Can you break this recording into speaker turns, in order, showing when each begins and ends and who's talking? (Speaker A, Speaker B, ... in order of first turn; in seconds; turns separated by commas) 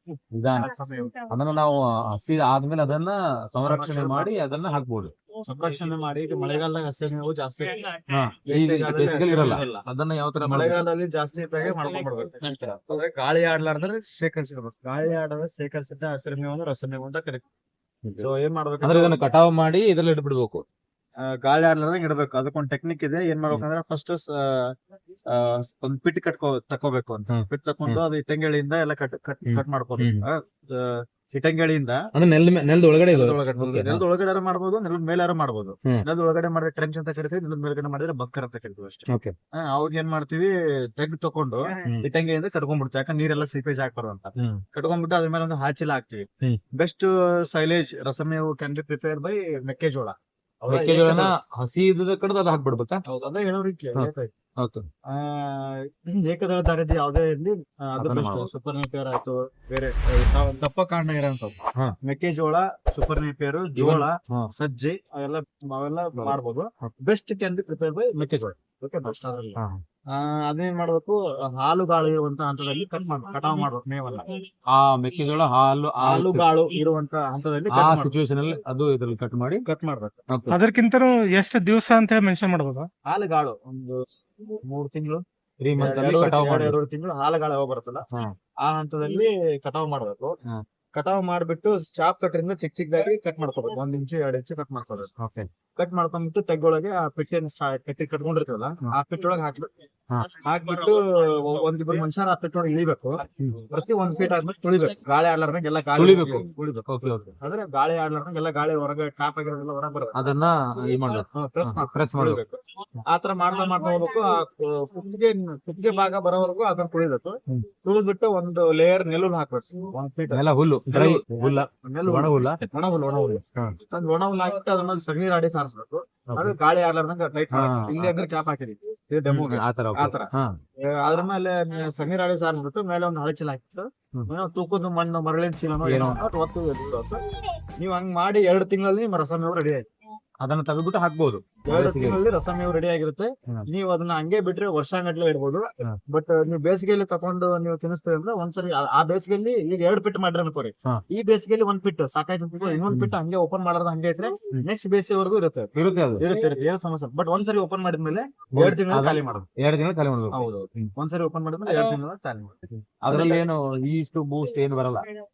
Speaker A: 0.3-0.7, Speaker B: 0.5-1.2, Speaker A: 1.3-5.1, Speaker B: 3.6-4.3, Speaker B: 5.4-9.8, Speaker A: 8.1-10.8, Speaker B: 10.4-17.4, Speaker A: 12.4-12.8, Speaker B: 18.2-19.2, Speaker A: 18.8-20.6, Speaker B: 21.2-24.7, Speaker B: 25.3-32.0, Speaker A: 27.3-28.0, Speaker A: 29.4-30.2, Speaker A: 32.1-34.0, Speaker B: 33.1-51.3, Speaker A: 39.1-39.3, Speaker A: 44.4-44.6, Speaker A: 50.7-53.0, Speaker B: 53.0-54.3, Speaker A: 53.9-54.9, Speaker B: 55.1-69.6, Speaker A: 58.0-58.5, Speaker A: 63.8-64.5, Speaker A: 66.2-66.9, Speaker A: 69.5-69.8, Speaker B: 70.1-74.4, Speaker A: 74.7-76.5, Speaker B: 76.0-78.1, Speaker A: 77.7-79.6, Speaker B: 79.7-80.2, Speaker A: 80.3-80.6, Speaker C: 80.5-82.9, Speaker B: 83.0-85.2, Speaker A: 85.6-86.8, Speaker B: 85.8-88.0, Speaker B: 88.6-90.4, Speaker B: 90.9-95.1, Speaker A: 95.2-95.5, Speaker B: 95.8-99.7, Speaker B: 100.4-106.8, Speaker A: 106.0-107.3, Speaker B: 107.4-110.3, Speaker A: 110.1-112.4, Speaker B: 111.3-121.2, Speaker A: 120.3-122.6, Speaker B: 121.8-137.2, Speaker A: 126.3-126.5, Speaker A: 127.5-128.1, Speaker A: 129.2-130.6, Speaker A: 135.8-136.2, Speaker B: 137.8-139.9, Speaker A: 140.4-142.2, Speaker B: 141.6-159.4, Speaker A: 155.7-156.2, Speaker A: 158.5-160.9, Speaker B: 160.3-162.6, Speaker A: 163.0-165.1, Speaker B: 163.1-163.4